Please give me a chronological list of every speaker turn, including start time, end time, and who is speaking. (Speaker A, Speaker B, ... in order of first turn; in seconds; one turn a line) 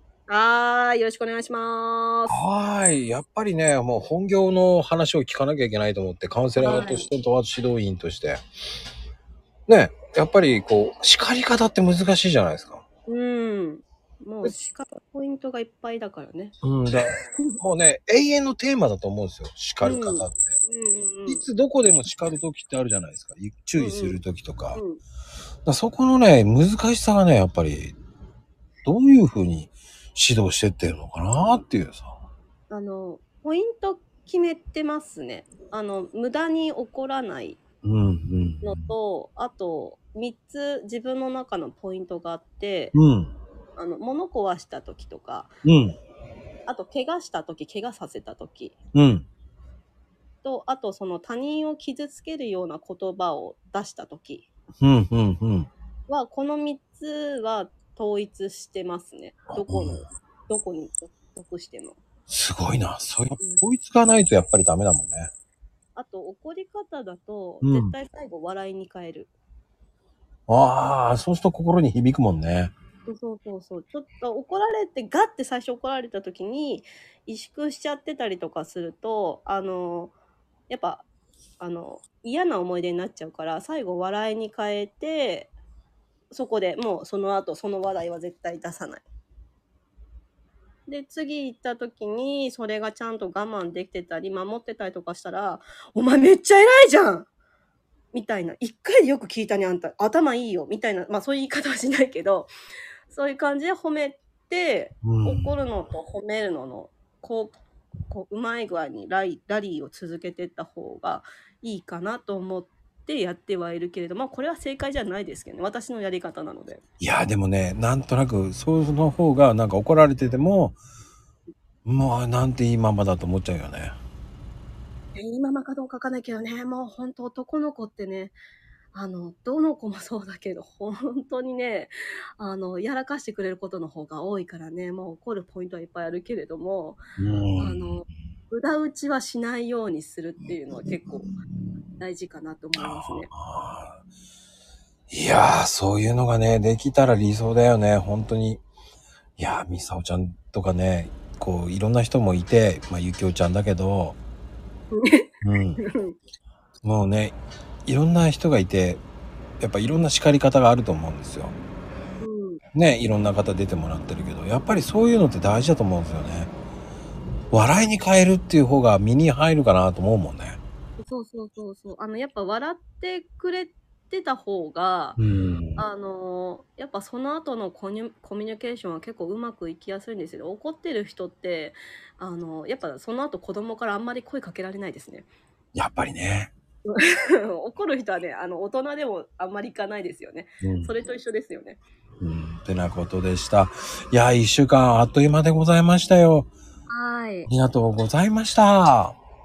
Speaker A: 0.3-2.4
Speaker B: 2.3-8.4
Speaker A: 6.6-7.1
Speaker B: 9.7-12.8
Speaker A: 13.1-16.6
Speaker B: 16.6-20.5
Speaker A: 19.8-21.4
Speaker B: 21.3-24.8
Speaker A: 23.8-24.2
Speaker A: 24.8-25.0
Speaker B: 25.6-27.9
Speaker B: 28.8-32.2
Speaker A: 32.7-37.6
Speaker B: 37.8-38.9
Speaker A: 38.6-42.9
Speaker B: 42.9-43.4
Speaker A: 43.8-45.5
Speaker B: 45.6-46.0
Speaker A: 46.7-48.8
Speaker B: 48.9-49.3
Speaker A: 50.4-54.5
Speaker B: 54.8-55.7
Speaker A: 56.1-62.0
Speaker B: 59.7-60.0
Speaker B: 62.3-65.3
Speaker A: 63.4-63.6
Speaker A: 66.0-69.3
Speaker B: 67.6-67.9
Speaker B: 70.5-72.7
Speaker A: 73.1-80.1
Speaker A: 80.7-81.1
Speaker A: 81.6-85.5
Speaker A: 86.3-89.0
Speaker A: 90.9-97.3
Speaker A: 98.1-102.5
Speaker A: 103.1-107.6
Speaker B: 105.0-105.5
Speaker A: 108.1-116.8
Speaker B: 117.0-120.8
Speaker B: 121.8-124.0
Speaker A: 125.2-128.4
Speaker A: 128.9-137.0
Speaker B: 137.2-137.9
Speaker A: 137.6-141.3
Speaker A: 142.0-143.3
Speaker B: 142.8-144.0
Speaker B: 145.1-148.6
Speaker B: 149.4-154.2
Speaker A: 154.9-155.3
Speaker B: 155.4-155.8
Speaker A: 155.8-156.2
Speaker B: 156.8-159.0
Speaker B: 159.6-161.6
Speaker A: 162.2-162.6
Speaker B: 162.8-166.5
Speaker B: 167.5-170.6
Speaker A: 171.0-175.2
Speaker B: 175.2-175.8
Speaker A: 175.8-185.3
Speaker B: 185.8-186.5
Speaker A: 186.9-191.8
Speaker B: 190.6-190.9
Speaker B: 192.2-196.5
Speaker A: 196.9-197.5
Speaker B: 197.5-199.2